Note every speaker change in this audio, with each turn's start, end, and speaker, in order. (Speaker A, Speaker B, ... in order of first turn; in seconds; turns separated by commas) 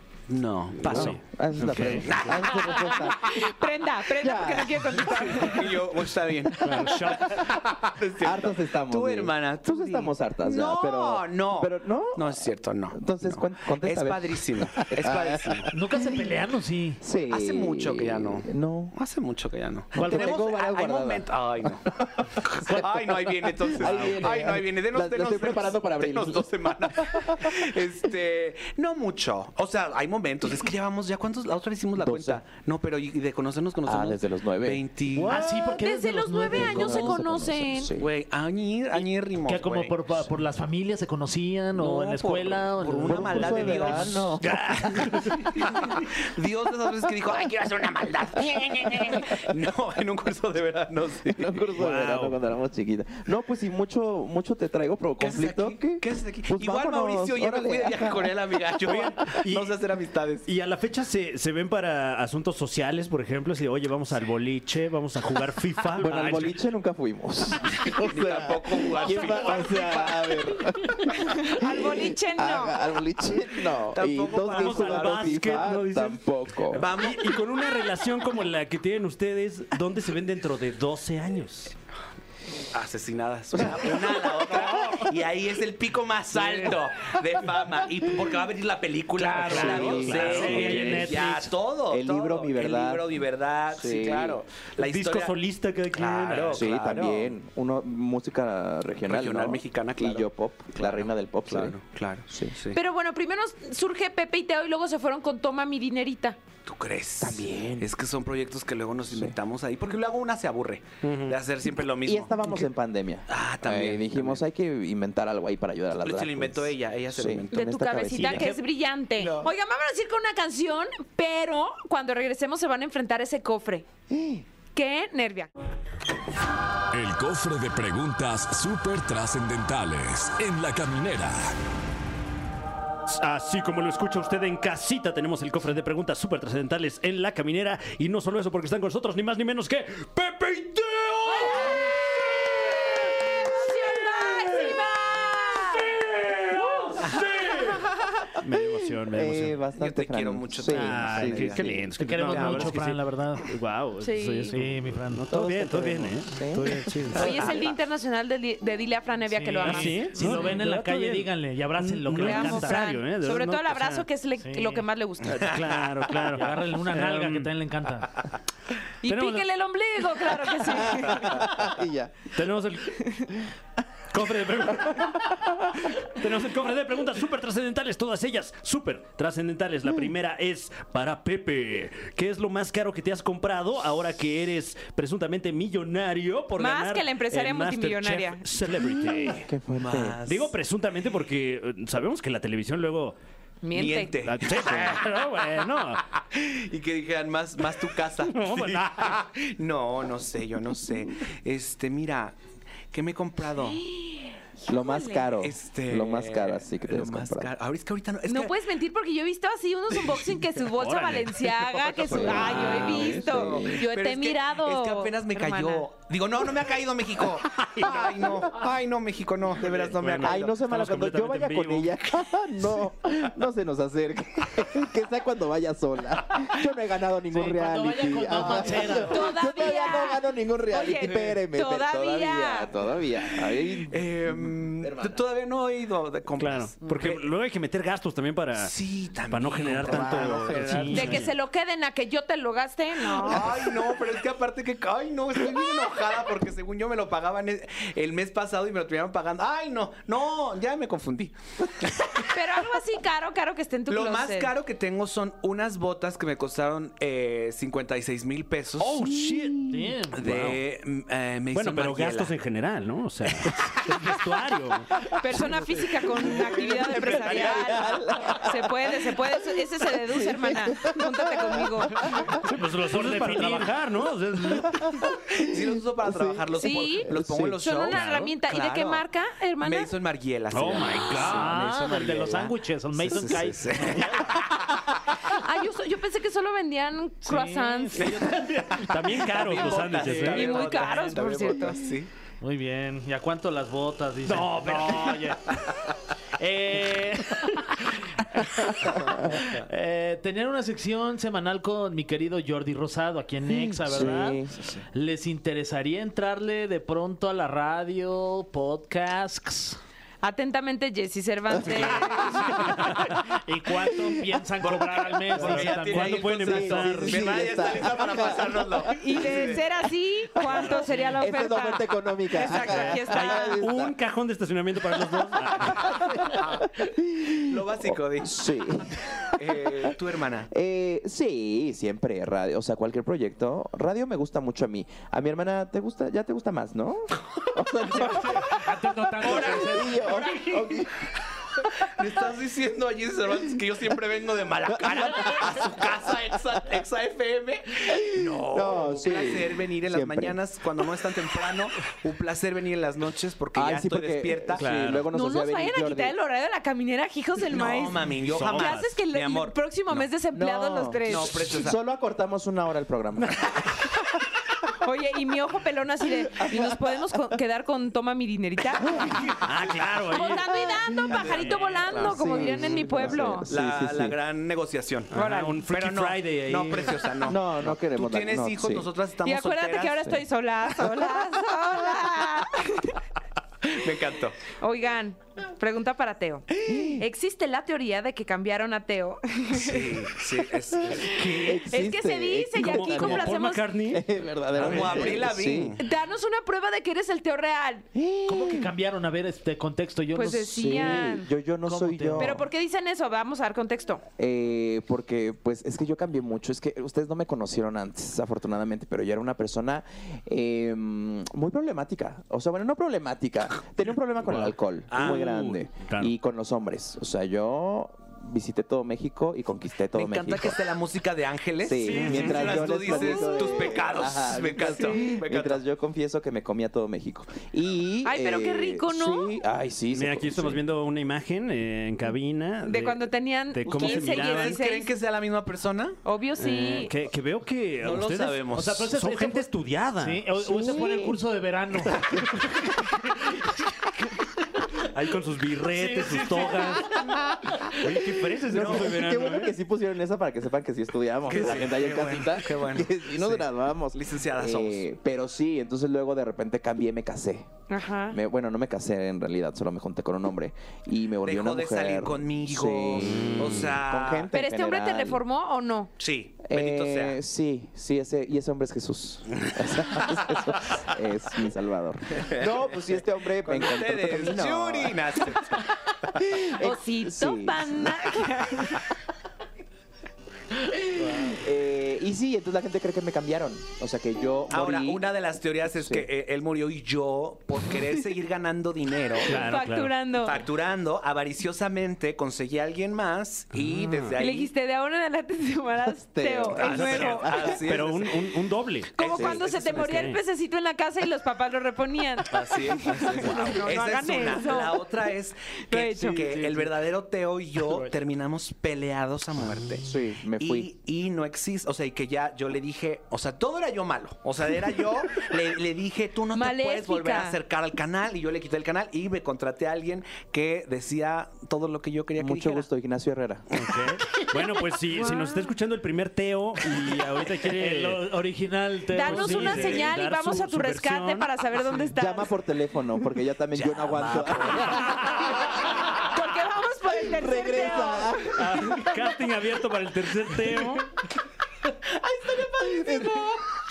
Speaker A: 0.3-1.2, Speaker B: 0.8-3.3, Speaker C: 0.8-2.2, Speaker A: 1.8-3.0, Speaker D: 2.2-5.8, Speaker B: 4.2-5.0, Speaker A: 5.0-15.7, Speaker C: 6.6-7.4, Speaker B: 6.7-7.4, Speaker B: 8.2-16.3, Speaker E: 15.7-17.0, Speaker B: 17.0-18.9, Speaker A: 17.3-21.9, Speaker B: 19.9-27.6, Speaker E: 20.0-20.4, Speaker A: 22.4-35.6, Speaker B: 31.9-32.4, Speaker B: 33.9-34.8, Speaker E: 35.1-37.3, Speaker D: 35.3-37.9, Speaker B: 36.5-38.1, Speaker A: 38.0-40.0, Speaker E: 39.4-44.2, Speaker A: 41.7-44.4, Speaker B: 43.0-45.1, Speaker C: 44.4-45.5, Speaker A: 45.1-51.6, Speaker B: 48.8-49.2, Speaker B: 51.3-59.4, Speaker C: 51.8-52.4, Speaker A: 55.2-60.5, Speaker C: 59.3-59.7, Speaker C: 60.5-66.5, Speaker B: 66.0-76.9, Speaker A: 67.9-70.5, Speaker D: 71.3-72.8, Speaker A: 73.2-75.6, Speaker C: 74.5-81.7, Speaker A: 76.7-77.5, Speaker A: 82.7-95.4, Speaker C: 86.4-86.6, Speaker E: 89.2-91.4, Speaker C: 89.2-91.5, Speaker B: 89.4-91.2, Speaker B: 91.9-93.2, Speaker B: 93.7-94.4, Speaker C: 94.8-96.7, Speaker A: 95.9-97.3, Speaker B: 96.5-101.8, Speaker A: 99.0-102.8, Speaker B: 102.3-102.6, Speaker D: 102.7-106.4, Speaker A: 106.6-112.7, Speaker B: 107.2-107.9, Speaker B: 109.1-109.3, Speaker C: 111.0-111.4, Speaker B: 112.0-118.5, Speaker A: 113.3-114.4, Speaker A: 116.0-117.6, Speaker D: 117.5-123.9, Speaker A: 118.2-118.5, Speaker A: 119.2-119.5, Speaker B: 124.1-124.4, Speaker D: 124.7-125.5, Speaker F: 126.9-131.5, Speaker C: 133.1-141.8, Speaker D: 141.3-142.0, Speaker D: 143.3-145.9, Speaker C: 144.4-144.7, Speaker C: 145.8-147.8, Speaker A: 147.0-147.2, Speaker C: 148.4-149.6, Speaker B: 148.5-151.9, Speaker A: 149.7-152.8, Speaker C: 150.7-157.5, Speaker E: 152.0-153.5, Speaker D: 154.0-154.6, Speaker E: 154.5-155.2, Speaker B: 155.3-156.9, Speaker A: 157.1-157.7, Speaker D: 157.1-160.6, Speaker E: 159.3-162.9, Speaker C: 159.6-164.0, Speaker D: 162.1-165.6, Speaker E: 164.4-164.8, Speaker A: 165.2-166.3, Speaker C: 165.4-167.5, Speaker E: 166.3-168.1, Speaker D: 169.0-171.4, Speaker C: 169.1-169.4, Speaker B: 170.7-172.3, Speaker C: 172.3-173.0, Speaker D: 173.0-173.3, Speaker C: 174.1-175.3, Speaker B: 174.8-175.8, Speaker C: 175.8-189.5, Speaker D: 186.6-188.4, Speaker B: 188.8-190.2, Speaker A: 189.7-190.6, Speaker C: 190.2-193.2, Speaker D: 193.6-194.2, Speaker A: 193.7-195.1, Speaker C: 194.2-196.0, Speaker A: 196.3-202.3, Speaker C: 198.2-199.2, Speaker A: 202.9-203.8, Speaker D: 203.6-205.3, Speaker B: 204.7-207.5, Speaker A: 205.3-208.6, Speaker D: 208.2-215.9, Speaker C: 210.7-212.8, Speaker A: 212.0-220.6, Speaker B: 212.1-213.8, Speaker C: 217.6-218.1, Speaker C: 219.6-222.0, Speaker B: 220.2-235.2, Speaker E: 227.3-229.3, Speaker A: 228.6-229.0, Speaker D: 229.1-232.7, Speaker A: 233.3-237.3, Speaker C: 236.4-238.7, Speaker A: 238.5-241.3, Speaker C: 239.3-241.3, Speaker B: 239.9-240.5, Speaker E: 240.5-240.9, Speaker D: 240.9-243.7, Speaker A: 243.0-252.6, Speaker D: 252.3-254.5, Speaker A: 253.9-259.1, Speaker C: 258.8-260.6, Speaker B: 259.1-259.9, Speaker E: 259.7-260.2, Speaker A: 260.1-262.4, Speaker C: 261.5-264.9, Speaker D: 265.2-272.1, Speaker B: 265.4-272.5, Speaker A: 266.2-268.0, Speaker C: 272.4-274.9, Speaker E: 272.5-273.7, Speaker B: 274.4-277.6, Speaker A: 275.4-279.0, Speaker D: 276.5-279.9, Speaker C: 277.9-278.3, Speaker A: 279.6-284.8, Speaker C: 280.5-281.6, Speaker E: 281.1-284.3, Speaker D: 285.3-288.2, Speaker E: 287.2-288.7, Speaker A: 287.9-292.1, Speaker C: 288.8-290.8, Speaker E: 289.8-290.3, Speaker D: 290.2-291.8, Speaker E: 292.4-295.4, Speaker C: 294.2-295.4, Speaker C: 296.4-297.8, Speaker E: 296.8-297.0, Speaker A: 299.4-299.6, Speaker E: 299.6-304.4, Speaker B: 303.5-304.6, Speaker E: 304.9-309.8, Speaker D: 310.2-312.8, Speaker A: 312.2-312.4, Speaker E: 312.8-317.2, Speaker C: 312.9-313.2, Speaker B: 313.9-314.2, Speaker A: 314.6-319.6, Speaker C: 315.4-317.3, Speaker B: 316.4-319.6, Speaker D: 319.0-323.6, Speaker B: 320.4-323.9, Speaker C: 320.9-321.1, Speaker C: 322.5-326.3, Speaker B: 325.4-329.9, Speaker A: 327.5-328.4, Speaker A: 329.4-330.5, Speaker B: 330.5-338.5, Speaker A: 338.0-340.8, Speaker E: 338.0-340.4, Speaker B: 339.2-340.9, Speaker A: 341.9-354.7, Speaker B: 344.7-345.8, Speaker B: 347.9-350.4, Speaker B: 353.5-356.1, Speaker C: 354.6-355.1, Speaker D: 355.1-361.4, Speaker A: 357.4-359.5, Speaker C: 358.2-358.9, Speaker B: 360.3-363.4, Speaker A: 361.0-361.8, Speaker D: 364.8-369.3, Speaker B: 366.3-366.8, Speaker B: 368.8-369.2, Speaker C: 369.4-370.5, Speaker A: 369.4-369.9, Speaker D: 370.1-373.5, Speaker B: 370.6-371.2, Speaker A: 371.1-380.0, Speaker C: 371.3-371.6, Speaker B: 372.0-374.1, Speaker C: 375.1-377.1, Speaker D: 375.1-375.6, Speaker B: 377.2-378.9, Speaker D: 379.2-382.9, Speaker A: 383.6-384.4, Speaker D: 384.6-390.1, Speaker B: 386.6-387.1, Speaker A: 389.6-391.7, Speaker B: 390.8-395.8, Speaker D: 391.2-393.7, Speaker C: 392.6-395.1, Speaker A: 394.6-395.8, Speaker D: 395.8-397.9, Speaker B: 397.9-398.7, Speaker E: 398.2-400.8, Speaker D: 400.1-401.3, Speaker B: 400.5-402.4, Speaker E: 401.6-402.4, Speaker D: 402.2-404.0, Speaker B: 404.2-420.6, Speaker C: 414.2-416.1, Speaker A: 414.9-415.3, Speaker A: 419.9-425.6, Speaker B: 421.6-430.6, Speaker C: 421.9-422.8, Speaker D: 422.9-423.8, Speaker D: 424.6-425.0, Speaker D: 428.0-429.4, Speaker C: 429.9-434.6, Speaker D: 432.6-434.9, Speaker A: 433.6-436.0, Speaker D: 436.0-436.9, Speaker C: 436.4-440.3, Speaker A: 437.8-438.9, Speaker E: 438.5-442.2, Speaker B: 440.4-441.2, Speaker C: 444.9-447.0, Speaker A: 445.7-447.0, Speaker C: 447.8-449.5, Speaker A: 447.8-449.2, Speaker B: 448.5-457.5, Speaker A: 451.2-454.9, Speaker D: 457.7-458.2, Speaker B: 458.1-465.2, Speaker A: 461.2-464.3, Speaker C: 463.1-463.8, Speaker D: 464.3-465.9, Speaker A: 466.0-467.2, Speaker B: 466.4-475.4, Speaker A: 469.3-470.1, Speaker A: 472.2-475.7, Speaker B: 476.2-478.2, Speaker D: 476.6-478.8, Speaker B: 481.2-485.1, Speaker A: 484.5-489.5, Speaker B: 485.7-486.1, Speaker D: 489.2-490.4, Speaker C: 489.3-490.1, Speaker A: 490.1-494.5, Speaker C: 493.5-494.2, Speaker D: 494.2-497.6, Speaker B: 496.1-497.6, Speaker A: 496.5-498.4, Speaker C: 497.5-499.0, Speaker A: 498.9-500.1, Speaker D: 499.0-504.9, Speaker B: 499.1-499.4, Speaker C: 499.8-500.2, Speaker A: 502.3-522.7, Speaker D: 505.7-506.4, Speaker B: 509.8-510.7, Speaker D: 516.3-517.4, Speaker B: 522.2-523.4, Speaker C: 523.5-528.0, Speaker D: 524.1-525.5, Speaker E: 527.3-530.0, Speaker D: 528.9-532.3, Speaker C: 528.9-531.8, Speaker B: 531.9-535.3, Speaker E: 533.5-535.1, Speaker C: 534.6-535.3, Speaker D: 535.9-538.8, Speaker B: 537.0-538.9, Speaker C: 538.2-540.9, Speaker A: 542.0-543.4, Speaker B: 542.6-543.2